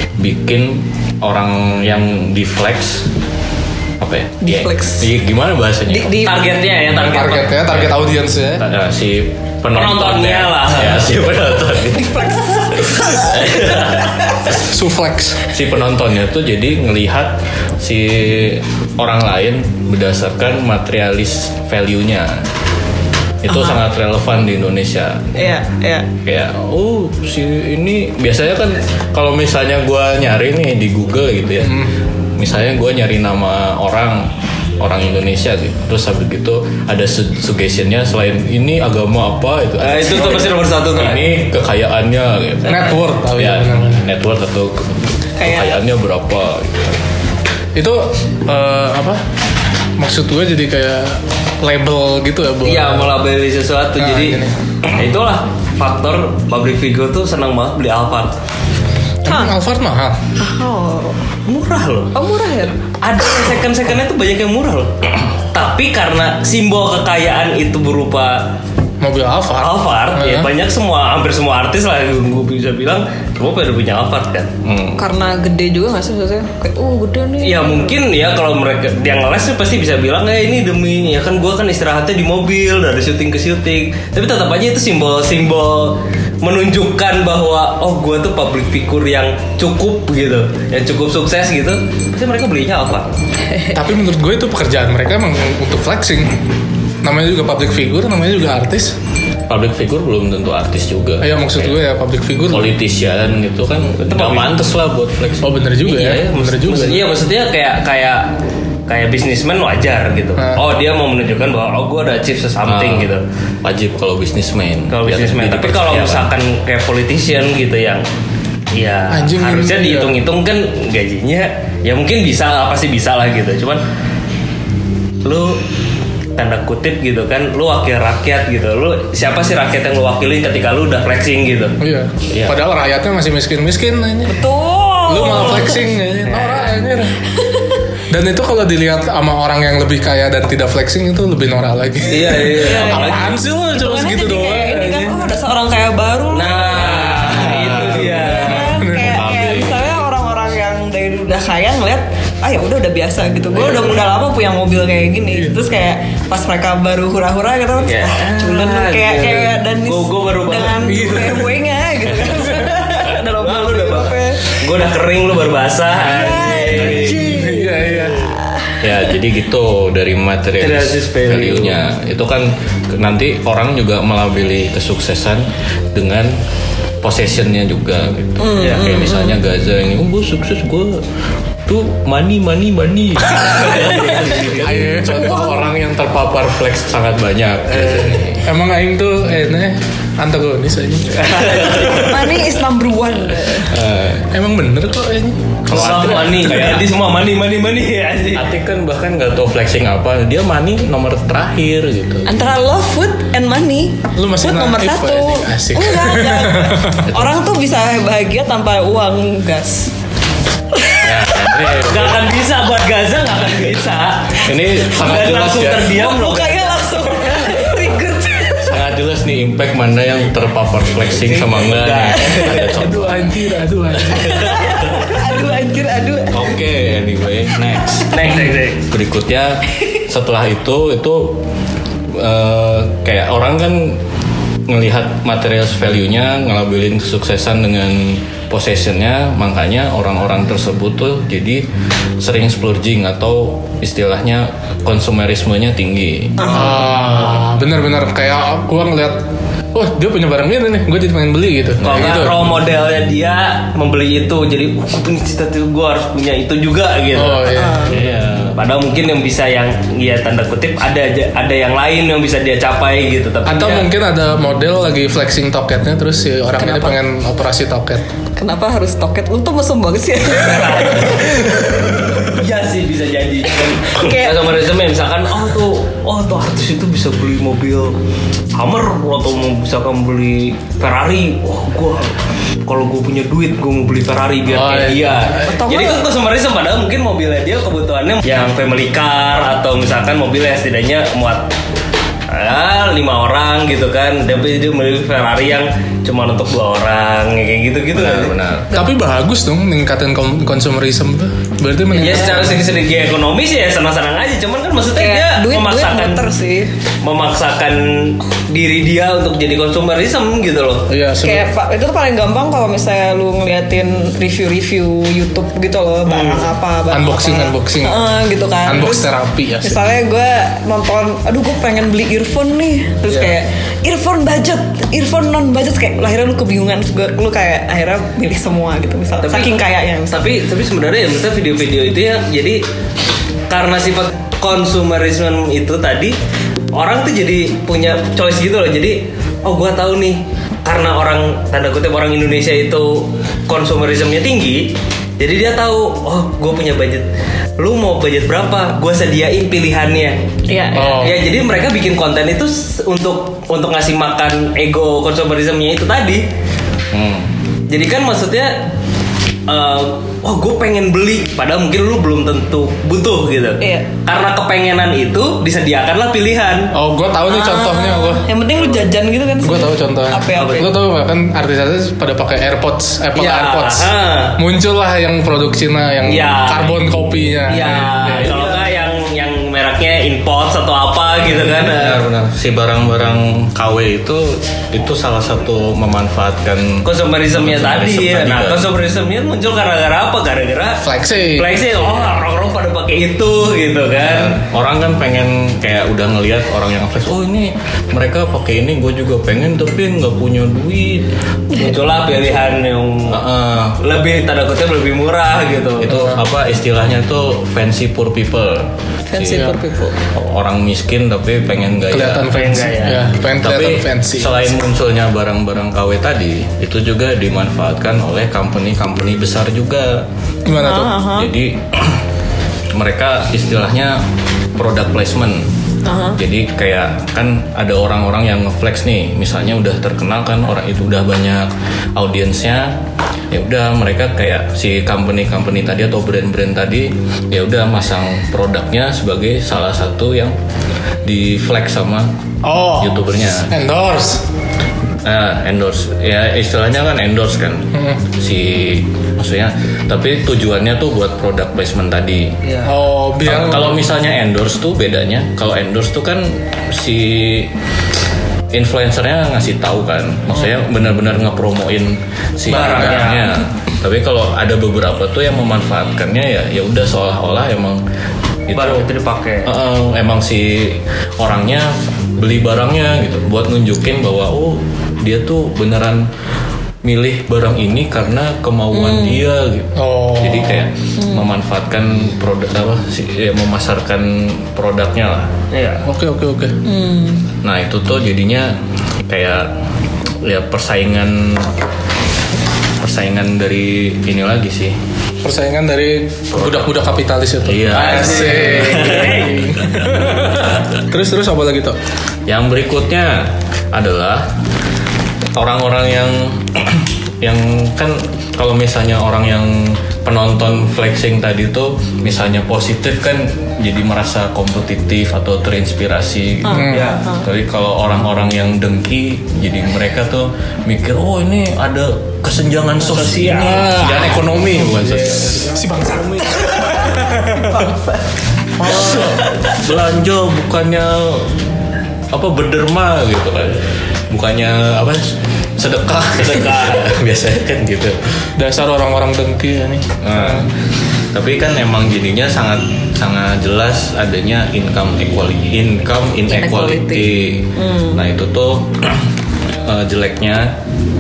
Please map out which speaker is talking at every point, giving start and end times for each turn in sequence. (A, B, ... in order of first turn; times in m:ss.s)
0:00.2-0:03.1 A
0:04.0-0:06.3 A
0:04.4-0:05.1 B
0:05.9-0:06.5 B
0:06.2-0:07.9 C
0:06.8-0:08.7 D
0:08.6-0:14.4 A
0:09.7-0:11.1 C
0:12.0-0:13.4 B
0:14.5-0:15.4 D
0:15.5-0:22.4 A
0:23.4-0:25.5 A
0:23.5-0:23.8 B
0:25.4-0:26.1 B
0:26.2-0:47.0 A
0:39.8-0:41.3 C
0:42.7-0:44.1 D
0:45.4-0:45.7 B
0:47.8-0:49.2 D
0:50.0-0:53.2 D
0:52.6-0:58.3 C
0:54.0-0:54.6 D
0:59.2-1:00.2 D
0:59.3-0:59.5 B
1:00.4-1:01.2 B
1:01.5-1:02.1 C
1:02.1-1:02.8 B
1:03.0-1:08.5 C
1:09.0-1:10.5 D
1:09.6-1:14.5 C
1:14.6-1:15.0 A
1:15.0-1:18.0 B
1:17.4-1:33.1 C
1:33.7-1:36.3 D
1:37.0-1:39.0 D
1:39.5-1:41.8 A
1:41.2-1:42.7 D
1:42.5-1:45.6 A
1:44.0-1:44.5 C
1:45.4-1:47.1 D
1:45.8-1:48.3 C
1:48.9-1:53.2 C
1:52.6-1:53.1 A
1:53.6-1:56.3 A
1:54.9-1:58.0 C
1:58.7-2:03.8 C
1:59.1-2:00.1 D
2:05.2-2:05.6 C
2:06.4-2:11.8 C
2:11.8-2:14.4 D
2:12.3-2:12.6 A
2:14.3-2:15.8 B
2:15.1-2:17.2 D
2:16.3-2:16.7 C
2:18.1-2:25.3 D
2:22.1-2:23.3 C
2:22.5-2:27.1 B
2:26.3-2:28.8 C
2:27.0-2:29.2 D
2:27.3-2:27.9 A
2:28.1-2:44.6 B
2:29.1-2:29.9 A
2:37.8-2:41.1 C
2:40.9-2:41.5 D
2:42.3-2:42.7 D
2:43.2-2:47.3 C
2:46.0-2:48.8 B
2:46.0-2:48.4 D
2:48.8-2:56.4 A
2:50.6-2:51.8 C
2:57.0-3:01.0 A
2:58.4-2:59.4 B
2:58.6-2:59.0 C
3:01.7-3:08.5 A
3:03.9-3:04.5 C
3:04.4-3:06.1 D
3:07.7-3:08.2 C
3:08.4-3:12.1 D
3:11.2-3:12.0 C
3:11.8-3:13.8 B
3:13.6-3:14.3 A
3:14.3-3:16.0 D
3:15.7-3:16.9 A
3:15.7-3:18.4 C
3:18.3-3:22.3 A
3:22.3-3:29.9 B
3:24.2-3:27.1 D
3:30.7-3:31.1 B
3:31.0-3:32.3 A
3:31.8-3:36.7 C
3:34.4-3:36.0 A
3:35.9-3:38.8 B
3:38.6-3:43.3 A
3:41.2-3:42.8 C
3:42.5-3:44.8 D
3:44.2-3:46.5 B
3:46.3-3:51.4 A
3:48.1-3:48.8 C
3:52.1-3:54.0 A
3:54.7-4:01.7 A
4:02.2-4:06.6 A
4:06.4-4:09.2 D
4:09.7-4:12.5 D
4:11.8-4:12.5 A
4:11.8-4:17.7 C
4:17.1-4:18.0 D
4:17.5-4:18.0 B
4:17.9-4:18.6 A
4:18.6-4:23.9 C
4:23.5-4:28.0 D
4:26.6-4:27.0 B
4:28.4-4:32.0 B
4:30.3-4:31.7 C
4:32.2-4:38.0 C
4:33.8-4:34.5 B
4:38.6-4:42.1 C
4:42.7-4:51.5 C
4:44.5-4:45.5 D
4:45.4-4:46.0 B
4:52.3-4:58.3 C
4:57.9-4:58.7 A
4:58.7-5:02.6 D
5:01.9-5:06.2 C
5:05.0-5:06.7 B
5:07.0-5:10.9 C
5:10.9-5:11.5 D
5:11.2-5:19.1 B
5:16.1-5:16.5 C
5:16.9-5:18.0 D
5:18.6-5:19.8 D
5:19.6-5:30.3 B
5:29.2-5:32.6 C
5:33.5-5:36.2 C
5:36.7-5:50.2 C
5:50.5-5:51.2 B
5:50.7-5:51.2 D
5:50.9-5:56.2 C
5:56.9-5:57.3 A
5:57.7-5:58.6 C
5:59.5-6:06.7 C
6:03.6-6:03.9 B
6:06.7-6:08.2 D
6:07.3-6:10.7 B
6:09.4-6:18.5 D
6:10.4-6:10.7 C
6:13.2-6:14.4 C
6:16.1-6:16.8 C
6:17.5-6:22.0 C
6:21.4-6:28.7 A
6:26.8-6:30.8 C
6:30.8-6:31.6 D
6:31.4-6:34.4 C
6:34.0-6:41.1 A
6:41.5-6:43.2 C
6:43.1-6:43.8 A
6:43.8-6:46.0 C
6:45.8-6:49.5 A
6:45.9-6:46.2 D
6:49.1-6:50.0 B
6:49.3-6:49.6 D
6:50.1-6:52.4 A
6:51.9-6:54.5 D
6:52.3-6:53.1 C
6:53.4-7:00.1 A
7:00.4-7:01.3 B
7:00.5-7:01.0 D
7:01.2-7:02.0 A
7:02.7-7:04.0 A
7:04.6-7:05.5 A
7:05.9-7:06.2 B
7:06.2-7:12.8 A
7:13.3-7:20.4 A
7:21.0-7:22.1 A
7:22.4-7:24.2 D
7:22.8-7:23.5 A
7:25.0-7:32.4 A
7:27.7-7:28.0 D
7:32.4-7:32.7 C
7:32.6-7:33.8 D
7:33.2-7:37.5 A
7:38.5-7:47.8 A
7:42.5-7:43.4 C
7:42.5-7:43.1 D
7:48.5-7:48.9 A
7:48.5-7:49.5 C
7:49.4-7:56.1 A
7:56.8-8:05.3 A
7:58.8-7:59.2 B
7:59.8-8:00.7 D
8:05.5-8:05.8 C
8:05.8-8:06.6 D
8:06.6-8:07.3 B
8:07.4-8:08.6 A
8:09.1-8:09.5 A
8:10.2-8:11.5 A
8:12.8-8:14.8 A
8:15.2-8:21.8 D
8:16.3-8:16.8 A
8:17.4-8:19.1 A
8:17.7-8:19.7 C
8:22.3-8:24.3 A
8:25.4-8:45.5 A
8:36.5-8:37.0 D
8:36.6-8:37.2 B
8:36.7-8:37.0 C
8:42.8-8:43.8 C
8:43.3-8:47.7 D
8:47.4-8:48.0 B
8:48.6-8:51.4 A
8:52.1-8:58.3 A
8:56.2-8:57.0 C
8:58.4-9:00.5 D
9:00.0-9:00.5 A
9:01.1-9:10.6 A
9:06.3-9:08.0 B